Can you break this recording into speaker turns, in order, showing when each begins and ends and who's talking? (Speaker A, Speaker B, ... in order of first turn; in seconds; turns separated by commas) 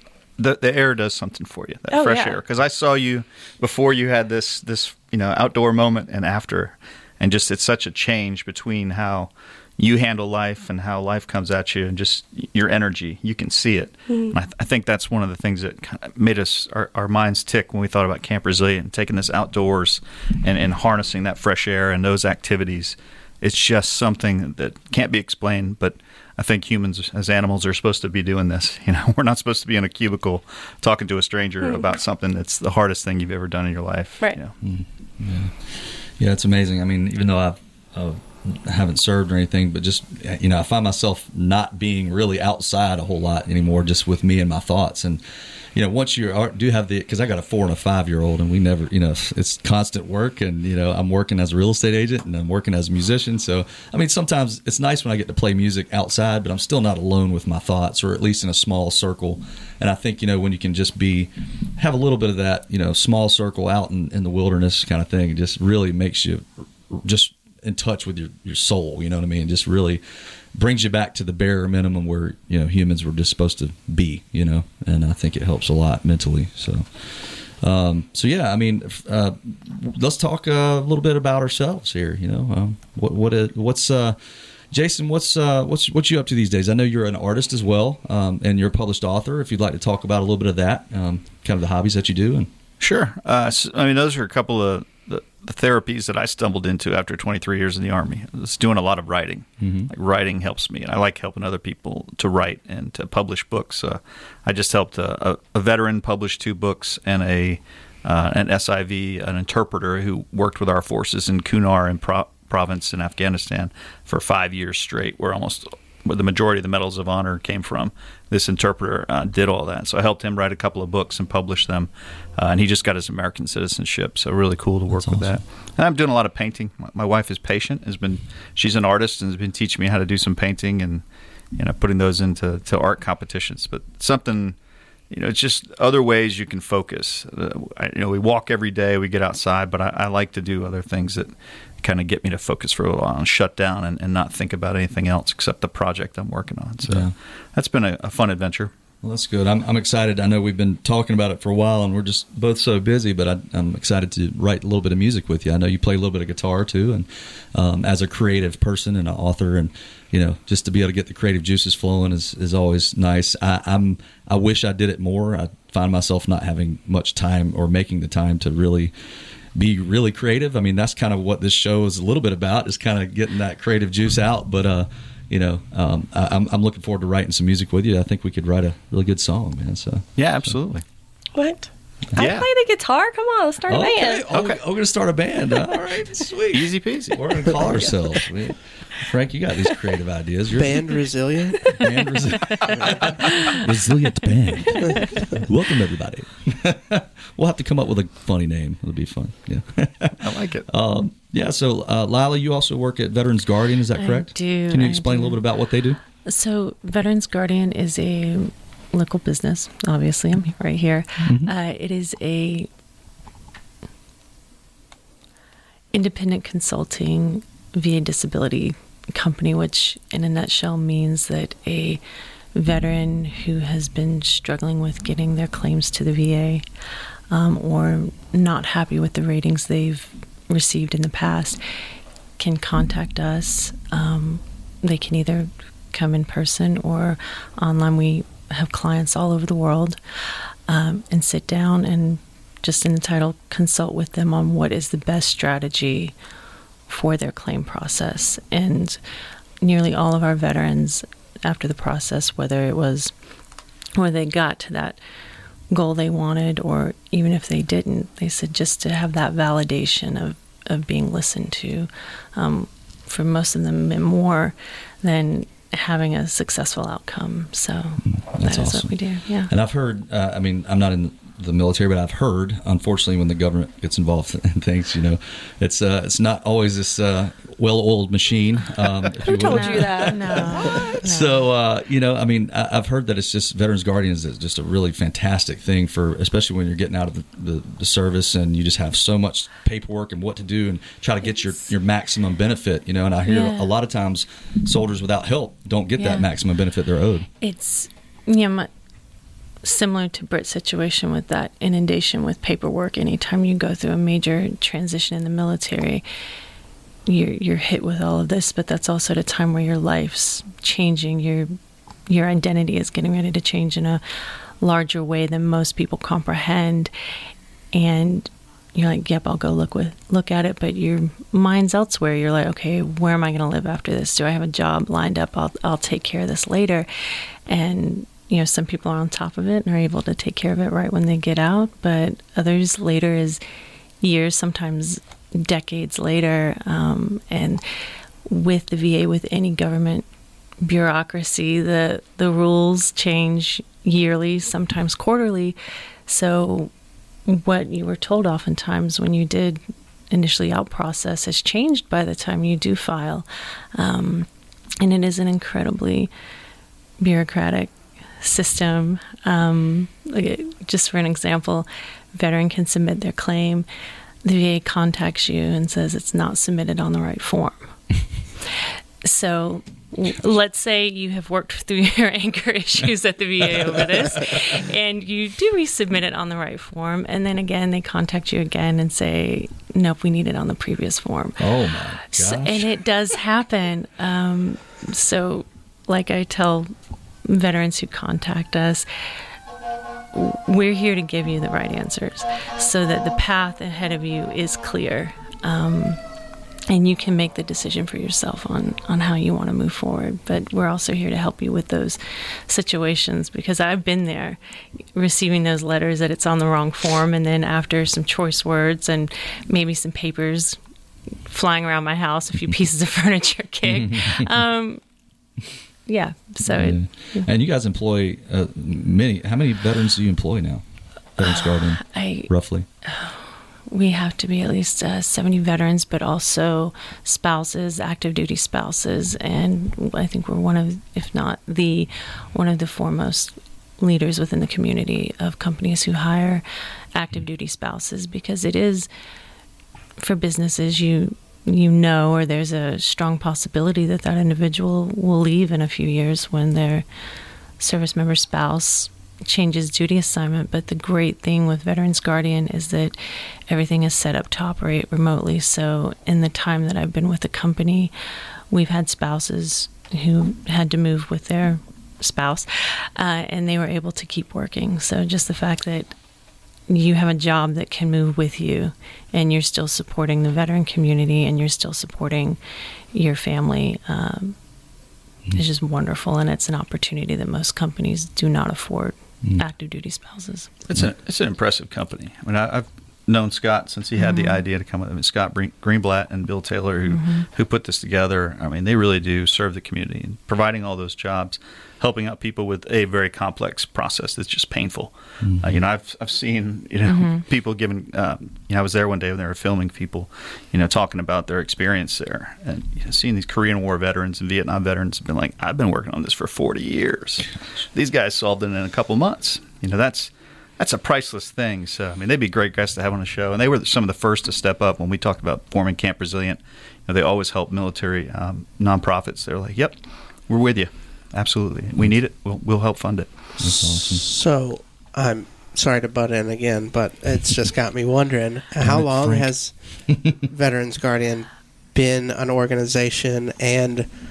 Speaker A: 0.4-34.5, Speaker B: 1.9-2.4, Speaker B: 14.1-14.3, Speaker C: 34.6-70.0, Speaker C: 70.5-84.2, Speaker C: 84.7-92.5, Speaker A: 92.8-131.0, Speaker C: 99.6-99.9, Speaker C: 124.9-125.4, Speaker A: 131.6-134.6, Speaker A: 135.1-148.7, Speaker C: 146.9-147.1, Speaker C: 149.0-168.9, Speaker C: 169.6-180.6, Speaker A: 180.2-180.8, Speaker B: 181.4-184.2, Speaker A: 182.2-182.5, Speaker C: 183.7-191.0, Speaker A: 184.3-184.6, Speaker A: 186.5-187.9, Speaker D: 190.5-191.8, Speaker C: 191.7-206.0, Speaker E: 194.7-195.2, Speaker A: 200.2-200.7, Speaker E: 204.0-205.4, Speaker E: 206.2-212.7, Speaker C: 211.2-211.5, Speaker E: 215.9-222.0, Speaker E: 222.5-226.6, Speaker E: 227.3-231.6, Speaker E: 232.4-246.1, Speaker E: 246.9-249.0, Speaker E: 249.6-253.1, Speaker E: 253.9-255.0, Speaker E: 255.7-269.5, Speaker C: 268.1-297.3, Speaker B: 279.3-280.9, Speaker E: 279.4-281.5, Speaker E: 293.3-293.7, Speaker E: 296.0-296.3, Speaker E: 297.4-298.7, Speaker E: 299.6-306.0, Speaker E: 307.1-311.6, Speaker E: 312.1-314.0, Speaker E: 314.6-316.9, Speaker E: 317.7-326.9, Speaker E: 327.5-333.4, Speaker E: 334.0-337.6, Speaker E: 338.3-340.1, Speaker E: 340.6-346.7, Speaker E: 347.3-354.3, Speaker E: 354.8-356.1, Speaker E: 357.0-363.7, Speaker E: 364.2-367.6, Speaker E: 368.4-386.7, Speaker C: 381.4-382.8, Speaker E: 387.2-388.9, Speaker E: 390.1-396.0, Speaker E: 396.7-404.4, Speaker E: 404.9-410.6, Speaker E: 411.3-414.8, Speaker C: 413.7-414.3, Speaker E: 415.9-417.3, Speaker C: 416.4-420.6, Speaker C: 421.2-422.7, Speaker E: 421.2-422.3, Speaker E: 422.8-438.9, Speaker E: 440.0-446.9, Speaker E: 447.6-457.9, Speaker E: 458.5-465.9, Speaker E: 466.7-472.4, Speaker E: 472.9-474.4, Speaker E: 475.3-480.5, Speaker A: 480.7-523.3, Speaker E: 484.0-484.4, Speaker E: 486.9-487.3, Speaker C: 495.2-495.6, Speaker E: 496.9-497.2, Speaker C: 523.4-524.1, Speaker D: 523.5-533.9, Speaker C: 528.6-530.1